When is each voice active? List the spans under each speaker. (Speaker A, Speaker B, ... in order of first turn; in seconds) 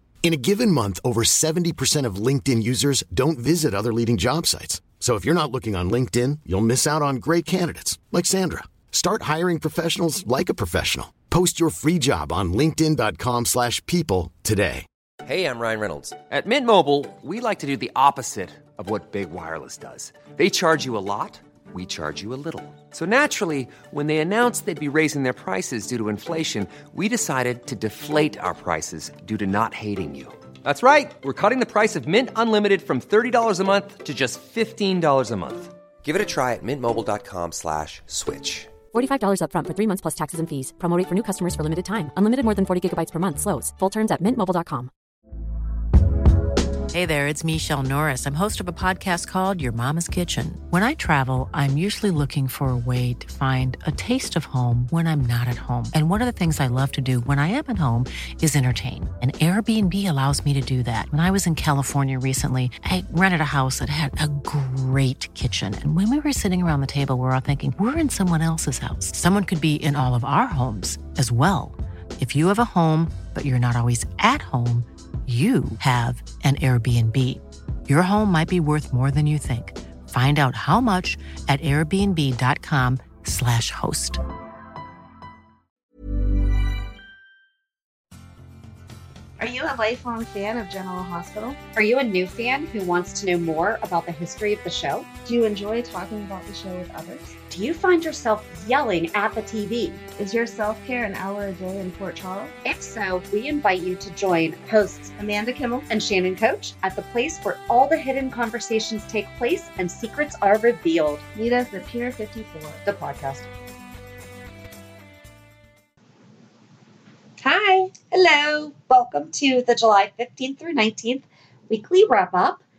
Speaker A: 0.2-14.8
Speaker B: 15.2-38.7
Speaker C: 38.9-44.9
Speaker D: 46.9-84.2
Speaker E: 89.4-91.6, 95.2-97.4, 100.2-102.5, 105.2-105.9, 111.3-112.8, 117.4-117.9
Speaker F: 91.7-95.1, 97.5-100.0, 102.6-105.1, 105.9-111.2, 112.8-113.5, 118.1-122.6